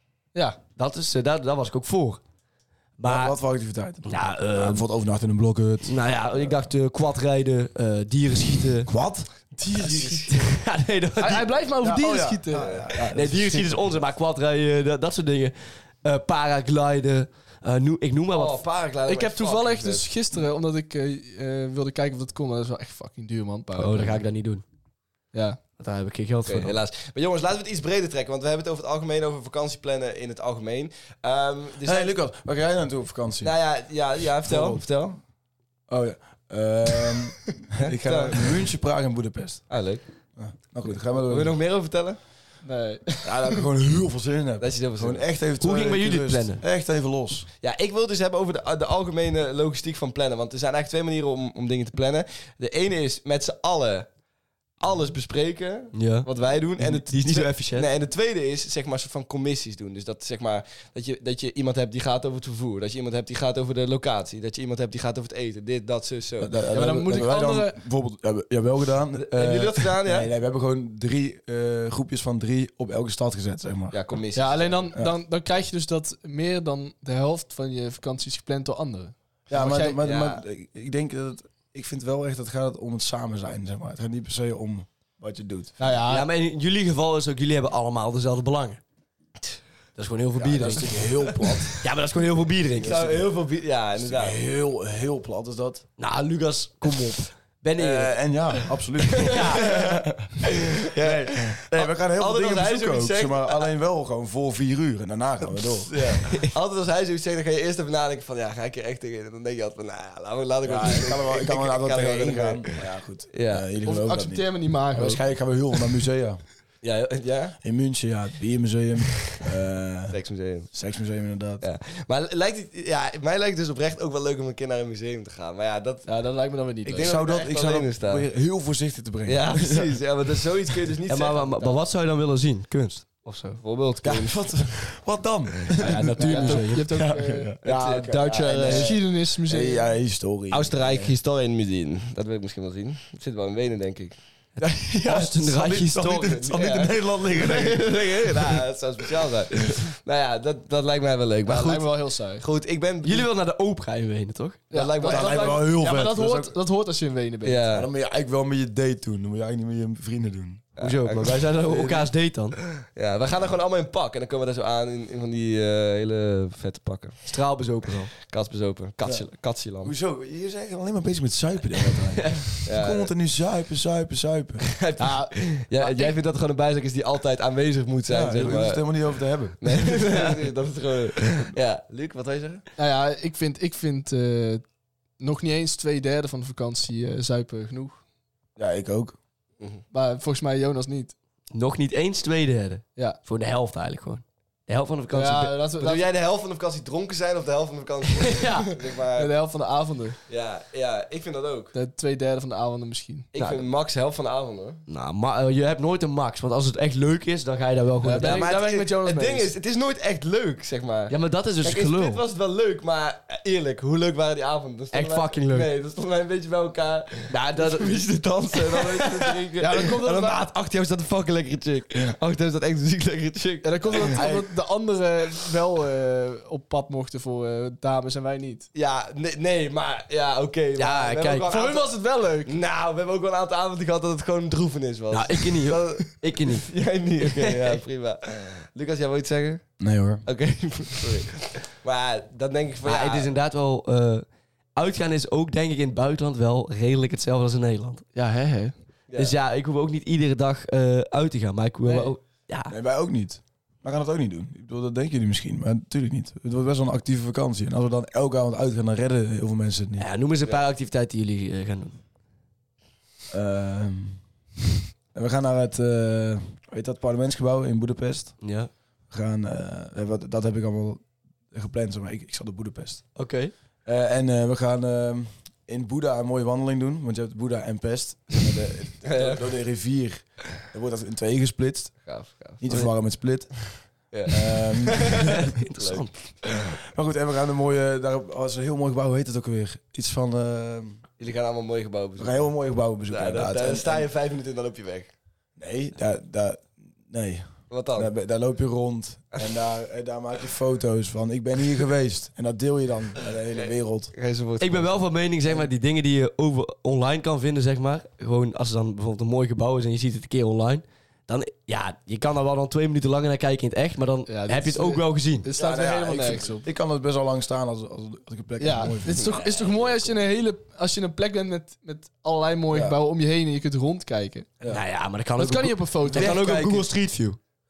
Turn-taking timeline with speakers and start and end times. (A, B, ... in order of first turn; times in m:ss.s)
0:00.3-0:00.6 A
0:00.8-0:02.2 B
0:03.0-0:03.4 B
0:03.0-0:06.7 C
0:04.0-0:04.8 B
0:05.8-0:08.9 B
0:08.9-0:09.3 C
0:09.6-0:10.3 A
0:09.8-0:10.3 D
0:10.3-0:11.5 B
0:11.2-0:12.7 A
0:11.8-0:14.0 C
0:12.5-0:12.9 D
0:13.1-0:18.6 B
0:18.3-0:20.1 D
0:19.0-0:24.2 A
0:23.7-0:24.6 B
0:25.3-0:25.6 A
0:25.8-0:26.8 B
0:26.4-0:32.1 D
0:31.8-0:33.6 C
0:33.4-0:35.2 D
0:34.2-0:34.8 C
0:35.9-0:39.7 C
0:37.8-0:38.6 D
0:39.7-0:40.0 D
0:40.4-0:41.5 C
0:41.2-0:42.2 D
0:42.6-0:43.6 A
0:43.2-0:47.5 C
0:44.6-0:45.2 D
0:45.6-0:46.6 B
0:47.6-0:54.1 D
0:54.8-1:06.5 D
0:55.9-0:57.9 B
1:06.4-1:14.0 C
1:06.7-1:07.8 A
1:09.2-1:10.3 D
1:13.9-1:14.9 D
1:14.3-1:20.0 A
1:19.5-1:25.8 C
1:20.0-1:20.4 D
1:25.8-1:26.3 A
1:26.1-1:28.8 B
1:30.0-1:31.2 B
1:30.4-1:31.8 C
1:31.8-1:33.2 B
1:32.8-1:34.4 D
1:34.0-1:35.8 C
1:36.0-1:38.2 B
1:37.8-1:46.2 C
1:39.1-1:39.9 D
1:39.2-1:39.7 B
1:40.4-1:43.7 D
1:45.6-1:53.6 D
1:50.6-1:56.4 C
1:53.8-1:55.2 A
1:56.8-1:57.6 D
1:57.6-2:00.2 C
2:00.1-2:00.7 D
2:00.7-2:01.6 C
2:01.6-2:06.1 D
2:06.0-2:07.1 A
2:06.8-2:08.2 D
2:07.0-2:10.0 C
2:09.2-2:11.8 D
2:11.1-2:13.6 B
2:13.6-2:14.8 D
2:14.0-2:21.1 C
2:15.8-2:17.0 B
2:16.2-2:17.5 A
2:17.6-2:19.0 D
2:18.1-2:19.9 A
2:20.5-2:24.2 D
2:24.6-2:26.5 B
2:24.6-2:28.6 C
2:26.5-2:33.3 D
2:31.4-2:32.4 A
2:33.0-2:34.6 B
2:34.7-2:35.6 D
2:34.7-2:37.6 A
2:35.0-2:36.5 C
2:37.4-2:37.9 D
2:37.7-2:40.7 C
2:40.8-2:41.4 D
2:40.8-2:42.6 B
2:41.6-2:42.1 C
2:42.8-2:47.2 D
2:47.2-2:48.1 B
2:48.1-2:49.9 D
2:49.0-2:49.3 C
2:49.8-2:54.7 C
2:52.2-2:52.5 B
2:52.6-2:53.1 D
2:54.7-2:59.1 D
2:55.0-2:56.1 A
2:58.1-3:00.0 C
2:59.6-3:02.6 D
3:02.8-3:04.6 A
3:05.2-3:08.0 A
3:08.6-3:09.2 C
3:09.9-3:11.1 A
3:11.5-3:15.6 B
3:15.1-3:16.1 A
3:15.8-3:19.3 D
3:18.2-3:18.7 B
3:19.2-3:20.2 A
3:20.3-3:21.7 D
3:21.7-3:23.3 A
3:23.3-3:24.8 D
3:23.4-3:23.6 B
3:24.9-3:28.5 B
3:28.0-3:29.5 A
3:28.1-3:44.3 D
3:31.1-3:32.2 B
3:34.9-3:35.7 B
3:37.3-3:39.3 B
3:39.6-3:40.5 A
3:43.6-3:48.7 A
3:44.1-3:44.4 C
3:48.7-3:59.7 D
3:50.8-3:51.5 B
3:51.5-3:52.5 A
3:55.1-3:57.8 B
3:59.8-4:00.2 C
4:00.2-4:03.3 D
4:02.8-4:08.0 B
4:08.1-4:08.7 A
4:09.1-4:12.7 B
4:11.8-4:12.1 A
4:12.7-4:20.1 C
4:20.0-4:22.0 B
4:23.3-4:24.2 C
4:25.1-4:28.5 C
4:28.4-4:28.7 B
4:29.1-4:33.1 C
4:33.2-4:33.5 B
4:33.8-4:42.1 C
4:39.0-4:39.4 D
4:42.0-4:42.9 D
4:42.6-4:45.4 C
4:44.1-4:46.7 D
4:45.4-4:46.3 B
4:46.5-4:51.0 C
4:51.2-4:52.5 D
4:52.2-4:54.1 C
4:53.1-4:55.1 D
4:55.6-5:04.1 C
4:57.7-4:58.1 D
5:03.6-5:05.0 D
5:04.6-5:15.4 B
5:14.3-5:16.6 A
5:15.6-5:19.4 C
5:18.6-5:24.5 A
5:19.1-5:20.1 D
5:22.7-5:23.0 C
5:24.7-5:27.4 B
5:25.4-5:26.4 A
5:26.0-5:26.9 C